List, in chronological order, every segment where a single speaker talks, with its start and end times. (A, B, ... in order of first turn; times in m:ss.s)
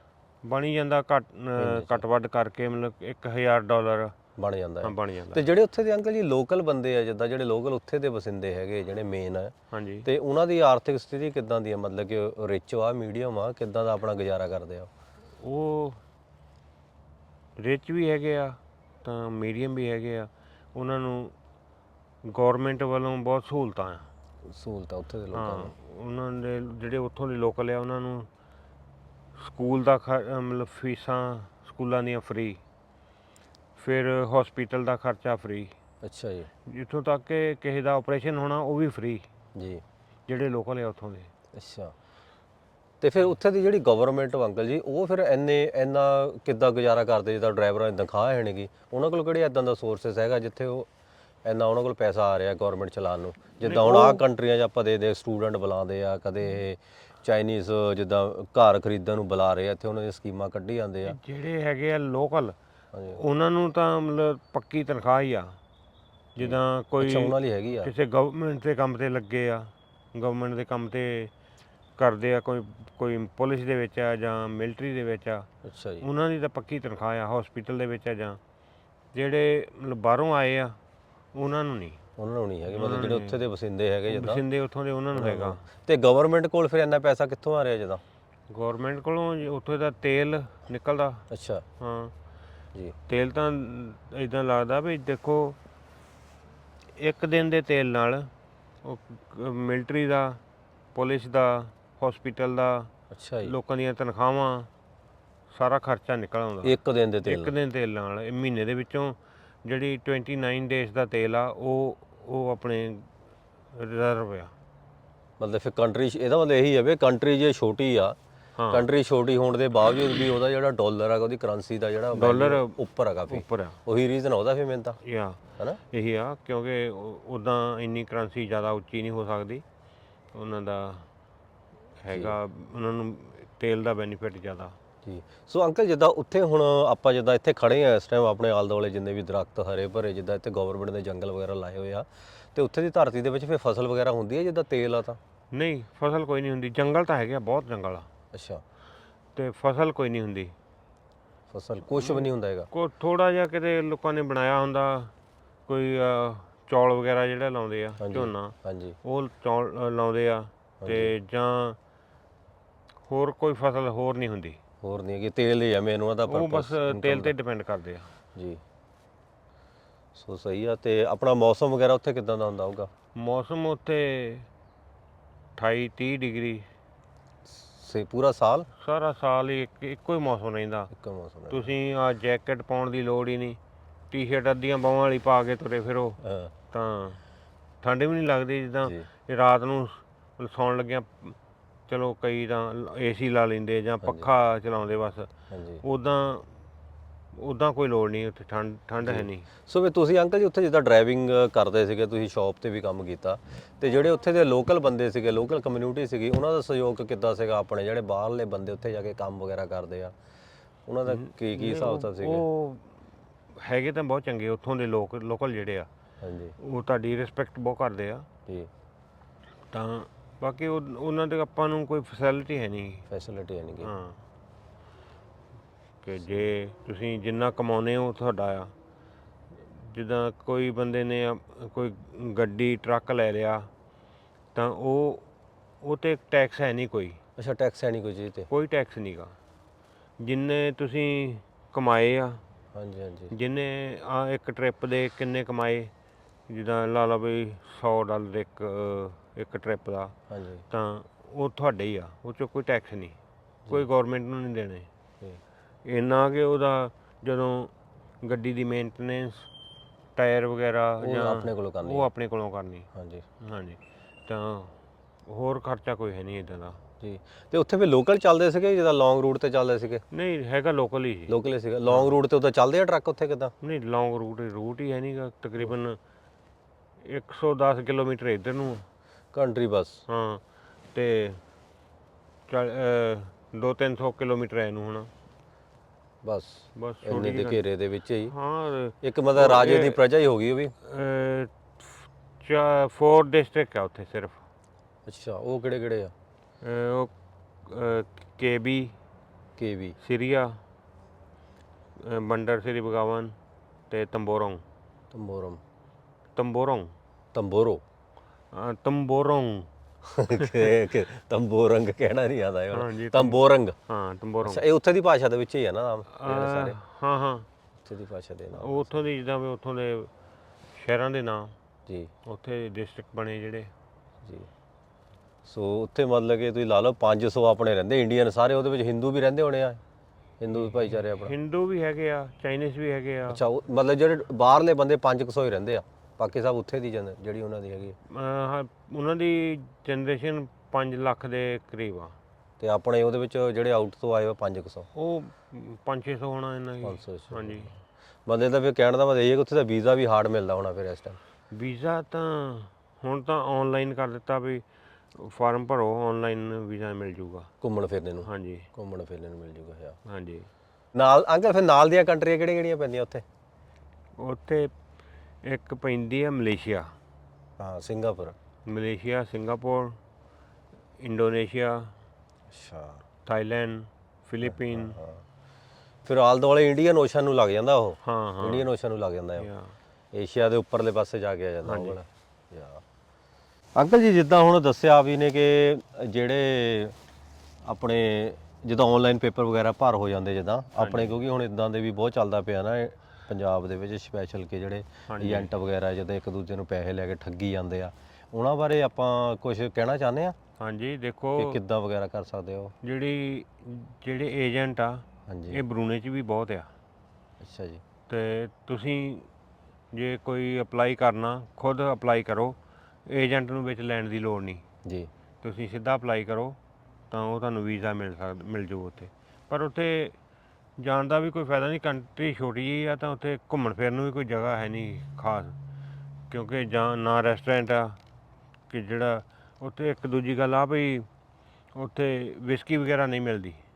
0:00.4-0:04.1 A
0:01.6-0:02.0 B
0:04.4-0:09.5 B
0:04.8-0:05.4 A
0:09.7-0:10.1 A
0:10.0-0:14.9 B
0:15.4-0:16.0 A
0:17.6-0:21.3 A
0:22.2-0:24.1 A
0:24.5-0:25.7 B
0:25.3-0:28.3 A
0:29.4-0:32.6 A
0:33.8-0:35.7 A
0:36.0-0:36.5 B
0:36.6-0:39.3 A
0:39.5-0:39.8 B
0:40.3-0:41.3 A
0:41.5-0:41.9 B
0:43.0-0:50.9 B
0:51.4-1:01.2 B
0:53.6-0:54.2 A
1:01.0-1:02.6 A
1:02.9-1:03.2 B
1:03.1-1:05.6 A
1:06.4-1:11.3 A
1:06.4-1:07.9 B
1:12.0-1:15.5 A
1:15.6-1:16.0 B
1:16.0-1:18.4 A
1:19.1-1:20.8 A
1:21.3-1:22.0 A
1:22.2-1:24.4 B
1:22.7-1:23.4 A
1:24.1-1:25.6 A
1:25.1-1:28.0 B
1:28.5-1:31.2 A
1:31.3-1:31.6 B
1:31.8-1:32.1 A
1:33.1-1:35.6 A
1:37.0-1:38.3 A
1:38.8-1:40.4 A
1:40.9-1:42.9 A
1:43.1-1:43.5 B
1:43.4-1:44.7 A
1:45.5-1:53.1 A
1:46.6-1:47.5 B
1:53.7-1:54.5 A
1:55.4-1:58.2 B
1:58.6-1:58.8 A
1:58.7-2:05.0 B
2:02.1-2:03.8 A
2:05.0-2:09.6 A
2:10.3-2:11.1 A
2:12.0-2:14.8 A
2:12.1-2:12.4 B
2:15.0-2:25.2 B
2:25.5-2:28.1 A
2:28.3-2:28.6 B
2:29.3-2:30.5 A
2:31.5-2:32.7 B
2:31.8-2:35.1 A
2:35.7-2:41.8 A
2:38.0-2:39.0 B
2:40.8-2:41.1 B
2:43.0-2:44.6 A
2:44.8-2:47.3 B
2:46.3-2:48.1 A
2:48.3-2:48.6 B
2:50.1-2:52.9 B
2:53.2-2:54.5 A
2:55.6-2:56.6 A
2:57.5-2:58.7 B
2:58.8-3:00.9 A
3:00.9-3:01.7 B
3:01.5-3:03.6 A
3:04.1-3:06.2 A
3:06.2-3:06.5 B
3:06.7-3:07.2 A
3:07.8-3:11.4 A
3:11.9-3:15.3 A
3:15.5-3:15.8 B
3:15.8-3:16.5 A
3:17.3-3:19.5 A
3:19.0-3:30.1 B
3:30.9-3:32.4 B
3:31.0-3:33.0 A
3:33.5-3:35.9 A
3:36.2-3:36.5 B
3:36.6-3:38.3 A
3:39.7-3:43.1 A
3:43.1-3:43.9 B
3:43.8-3:44.2 A
3:46.0-3:48.7 A
3:49.7-3:53.7 A
3:54.5-3:55.2 A
3:55.8-3:57.2 A
3:57.4-3:58.5 B
3:58.5-3:59.4 A
4:00.2-4:02.4 A
4:02.7-4:03.3 B
4:03.3-4:05.9 A
4:06.5-4:10.1 A
4:10.3-4:10.6 B
4:10.7-4:13.2 A
4:13.7-4:14.9 A
4:15.8-4:19.5 A
4:20.2-4:24.7 A
4:21.0-4:22.1 B
4:22.9-4:23.2 B
4:25.2-4:26.8 A
4:27.0-4:30.0 B
4:30.1-4:31.4 A
4:31.3-4:33.5 B
4:31.9-4:32.1 A
4:33.6-4:36.0 A
4:37.0-4:38.8 A
4:39.3-4:40.0 B
4:40.1-4:40.4 A
4:40.9-4:41.4 A
4:42.5-4:45.1 A
4:46.2-4:48.3 B
4:46.8-4:47.6 A
4:48.3-4:50.0 A
4:49.0-4:50.7 B
4:50.8-4:54.4 A
4:55.0-4:56.1 B
4:56.6-4:57.1 A
4:57.6-4:58.9 A
4:59.6-5:00.0 B
5:00.0-5:00.6 A
5:02.0-5:03.3 A
5:03.9-5:04.6 A
5:05.1-5:05.6 B
5:06.3-5:06.9 A
5:07.3-5:07.8 B
5:08.5-5:09.7 A
5:10.0-5:13.8 B
5:10.3-5:10.7 A
5:12.7-5:14.6 A
5:14.4-5:16.8 B
5:16.1-5:17.5 A
5:17.8-5:18.9 B
5:18.6-5:20.1 A
5:20.7-5:21.5 A
5:22.2-5:23.7 A
5:24.2-5:24.5 B
5:25.4-5:29.8 B
5:30.4-5:31.3 B
5:30.6-5:33.4 A
5:33.3-5:38.0 B
5:38.1-5:42.2 A
5:42.6-5:44.9 B
5:44.9-5:47.7 A
5:46.8-5:51.2 B
5:51.5-5:54.6 A
5:55.1-5:57.5 A
5:57.6-6:00.0 B
5:58.2-5:58.7 A
6:00.0-6:00.5 A
6:00.9-6:03.2 B
6:04.2-6:04.7 A
6:05.4-6:06.9 A
6:07.6-6:08.4 B
6:08.7-6:10.0 A
6:11.0-6:11.9 A
6:12.5-6:13.0 B
6:13.2-6:15.0 A
6:14.4-6:15.2 B
6:16.0-6:19.5 B
6:18.0-6:18.7 A
6:19.4-6:19.7 A
6:20.1-6:22.8 B
6:21.6-6:22.0 A
6:23.8-6:27.0 B
6:27.6-6:40.4 B
6:30.8-6:31.1 A
6:35.1-6:35.5 A
6:40.6-6:41.6 A
6:41.4-6:42.7 B
6:42.8-6:46.7 A
6:45.3-6:45.6 B
6:47.4-6:47.8 B
6:48.1-6:49.3 A
6:49.9-6:54.6 A
6:54.8-6:55.1 B
6:55.4-6:56.6 A
6:57.1-7:00.2 A
7:00.8-7:05.5 A
7:06.3-7:08.0 A
7:08.7-7:11.1 A
7:11.7-7:13.6 A